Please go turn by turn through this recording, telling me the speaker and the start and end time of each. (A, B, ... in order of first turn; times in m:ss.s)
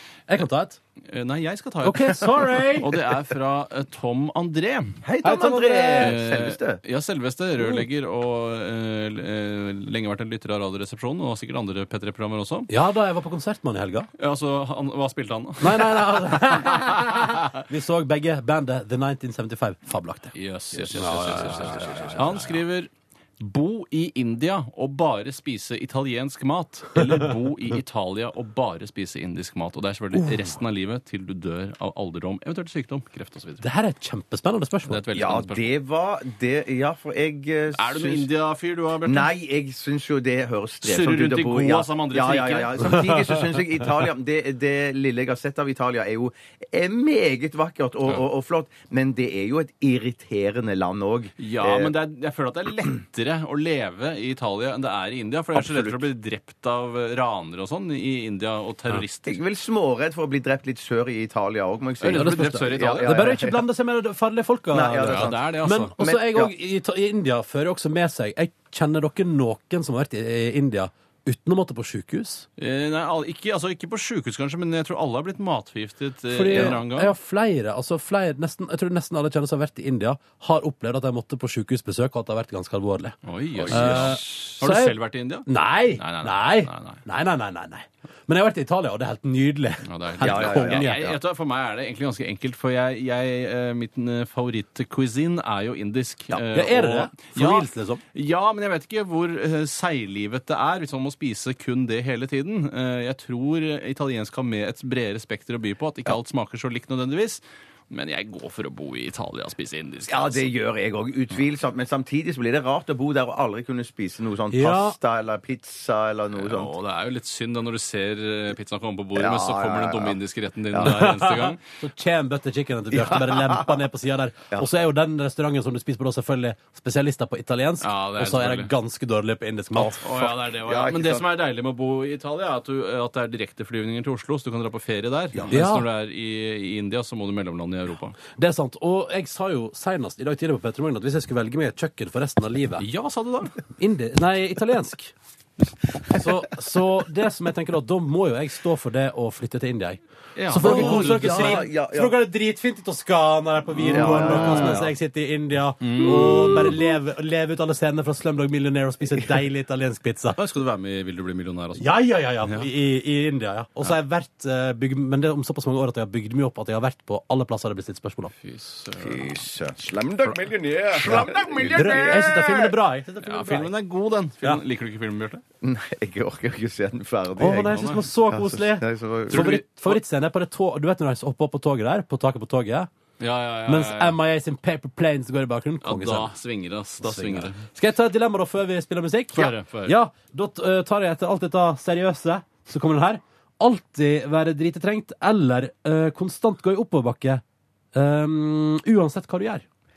0:00.3-0:00.8 A
0:01.1-0:05.0 B
0:01.8-0:02.9 A
0:05.0-0:06.8 C
0:05.2-0:06.1 A
0:06.0-0:12.7 B
0:12.7-0:14.1 A
0:14.2-0:17.5 B
0:15.6-0:22.5 A
0:20.3-0:33.6 B
0:30.2-0:30.5 A
0:33.6-0:35.0 A
0:34.9-0:35.7 B
0:35.1-0:38.3 C
0:37.7-0:39.3 B
0:39.0-0:51.9 C
0:40.8-0:43.0 B
0:51.4-0:59.4 B
0:55.5-0:56.0 C
0:59.2-1:03.6 C
1:02.0-1:03.1 B
1:02.1-1:12.4 A
1:04.7-1:05.5 C
1:05.0-1:05.9 B
1:06.0-1:06.5 C
1:12.6-1:17.1 B
1:16.3-1:23.2 A
1:23.2-1:27.0 B
1:23.5-1:24.6 C
1:23.7-1:31.1 A
1:29.8-1:50.5 B
1:30.2-1:31.2 C
1:36.5-1:38.0 A
1:50.1-1:56.7 C
1:54.5-1:55.0 A
1:56.3-2:01.6 B
1:59.1-2:00.2 C
2:00.7-2:01.0 C
2:00.8-2:10.0 A
2:02.9-2:03.7 C
2:07.8-2:08.7 B
2:09.7-2:11.2 C
2:10.0-2:18.2 B
2:15.5-2:15.8 A
2:18.3-2:22.8 A
2:22.8-2:23.6 B
2:23.8-2:25.1 A
2:26.1-2:40.4 A
2:30.4-2:31.7 B
2:30.6-2:32.1 C
2:33.8-2:34.9 B
2:33.9-2:34.9 C
2:35.8-2:36.8 B
2:40.4-2:42.7 B
2:41.8-2:48.3 A
2:48.4-2:49.4 B
2:49.0-2:52.7 C
2:50.2-2:52.5 B
2:51.0-2:53.7 A
2:53.2-2:55.4 B
2:55.6-2:59.6 C
2:57.4-3:02.9 A
2:57.7-2:58.0 B
2:59.3-2:59.9 B
3:03.2-3:04.2 B
3:03.7-3:06.3 A
3:05.8-3:07.6 B
3:07.0-3:17.4 A
3:09.3-3:09.9 B
3:17.9-3:19.6 A